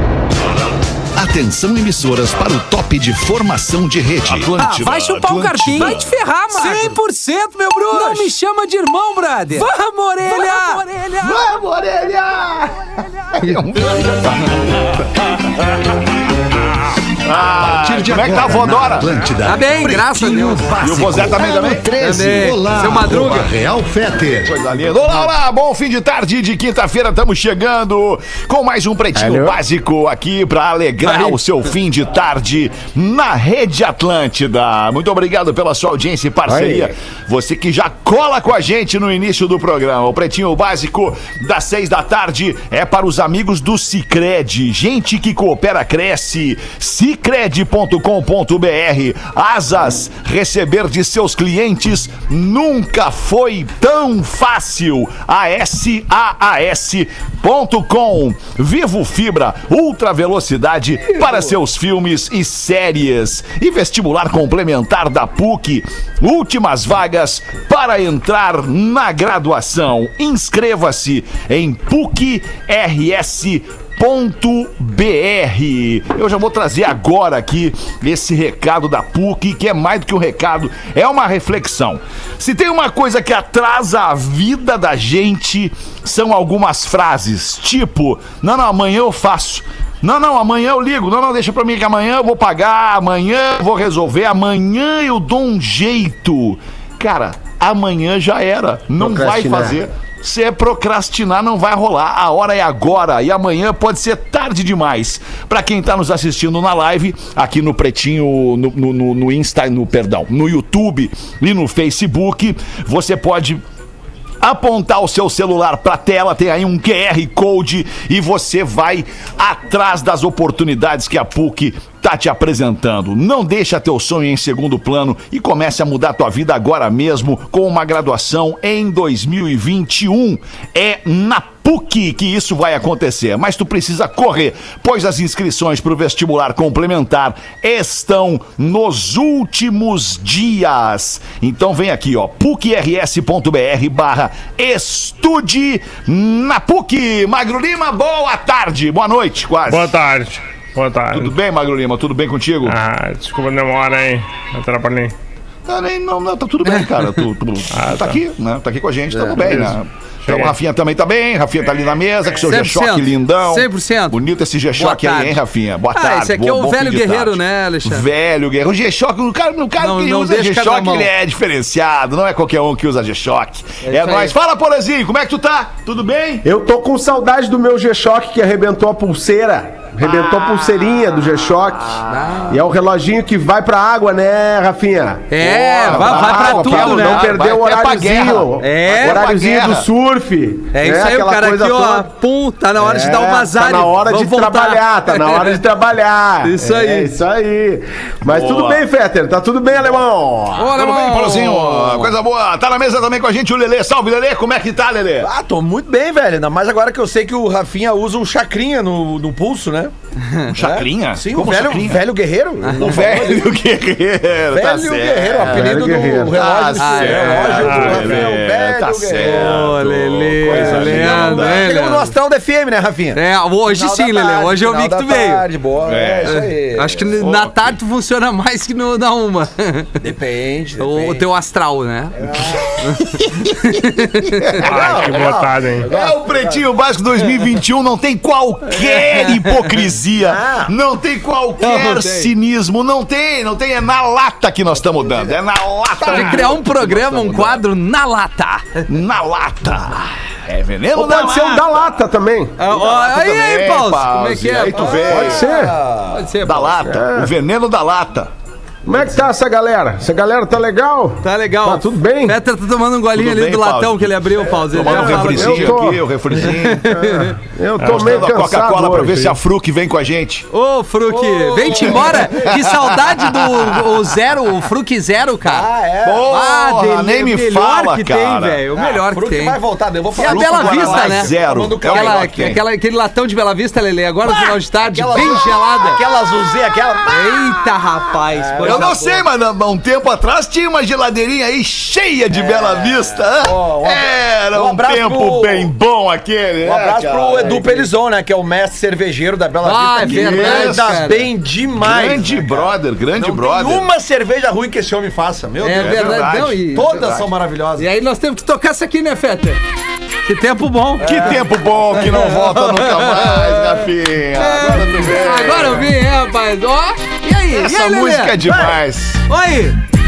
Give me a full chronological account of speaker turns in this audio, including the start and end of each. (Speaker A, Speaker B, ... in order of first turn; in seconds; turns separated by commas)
Speaker A: 1.1-6.1, Speaker B: 4.4-11.3, Speaker A: 11.1-15.4, Speaker A: 17.2-19.1, Speaker C: 17.6-24.6, Speaker B: 19.4-20.7, Speaker A: 20.8-21.9, Speaker B: 22.0-23.5, Speaker A: 24.4-113.6, Speaker D: 29.1-29.6, Speaker B: 31.0-31.4, Speaker D: 36.5-36.9, Speaker D: 99.0-99.8, Speaker A: 114.4-149.9, Speaker E: 149.7-151.3, Speaker A: 151.1-152.8, Speaker E: 152.7-155.1, Speaker A: 155.7-176.5, Speaker E: 157.7-158.2, Speaker B: 159.1-159.4, Speaker E: 159.4-160.5, Speaker B: 162.4-164.2, Speaker B: 164.7-165.4, Speaker B: 165.9-168.1, Speaker B: 169.8-171.1, Speaker B: 173.8-174.3, Speaker D: 176.4-192.1, Speaker A: 180.0-180.4, Speaker B: 182.1-182.6, Speaker B: 185.3-187.3, Speaker A: 185.8-189.9, Speaker B: 188.6-189.2, Speaker B: 190.7-195.6, Speaker D: 192.8-200.7, Speaker B: 196.4-197.1, Speaker A: 198.2-198.8, Speaker B: 200.6-202.1, Speaker A: 200.7-205.3, Speaker F: 205.2-209.9, Speaker B: 210.2-210.5, Speaker F: 210.6-213.5, Speaker A: 210.6-212.1, Speaker A: 212.8-221.7, Speaker F: 214.5-219.7, Speaker D: 215.4-216.3, Speaker B: 216.8-218.2, Speaker E: 217.6-218.2, Speaker B: 219.2-222.1, Speaker F: 220.5-227.0, Speaker B: 223.1-225.4, Speaker A: 225.8-226.4, Speaker B: 226.3-230.0, Speaker A: 227.1-227.7, Speaker F: 230.0-231.2, Speaker B: 230.8-232.2, Speaker F: 232.2-232.7, Speaker B: 232.8-234.6, Speaker A: 234.5-235.2, Speaker F: 234.6-236.6, Speaker E: 234.6-235.9, Speaker A: 235.8-247.6, Speaker B: 238.8-239.4, Speaker F: 240.2-240.7, Speaker B: 241.6-242.3, Speaker F: 246.0-247.5, Speaker B: 246.1-248.8, Speaker A: 248.9-251.8, Speaker D: 250.9-252.5, Speaker B: 252.6-255.3, Speaker A: 252.7-255.5, Speaker F: 254.9-256.2, Speaker D: 255.1-255.8, Speaker B: 256.1-256.8, Speaker A: 256.4-258.3, Speaker D: 256.9-257.3, Speaker D: 258.9-262.4, Speaker B: 261.2-265.8, Speaker A: 263.1-266.9, Speaker D: 264.8-266.0, Speaker B: 266.3-267.4, Speaker D: 266.9-269.3, Speaker A: 267.8-270.5, Speaker B: 270.5-275.7, Speaker F: 271.1-272.5, Speaker A: 272.4-273.7, Speaker F: 275.4-276.2, Speaker A: 276.0-278.6, Speaker B: 276.2-279.6, Speaker F: 278.7-282.5, Speaker B: 280.1-281.3, Speaker A: 280.2-282.6, Speaker B: 281.9-286.0, Speaker F: 284.8-287.5, Speaker B: 287.1-289.2, Speaker F: 288.4-289.0, Speaker A: 288.6-297.6, Speaker F: 292.3-295.7, Speaker F: 296.6-307.9, Speaker B: 297.4-297.9, Speaker B: 299.6-301.3, Speaker A: 300.0-301.0, Speaker A: 301.8-303.9, Speaker B: 305.6-309.6, Speaker A: 305.7-306.6, Speaker B: 310.2-311.4, Speaker A: 311.0-315.9, Speaker F: 311.0-311.4, Speaker B: 312.0-313.8, Speaker B: 314.3-318.4, Speaker A: 317.5-319.2, Speaker B: 319.3-319.8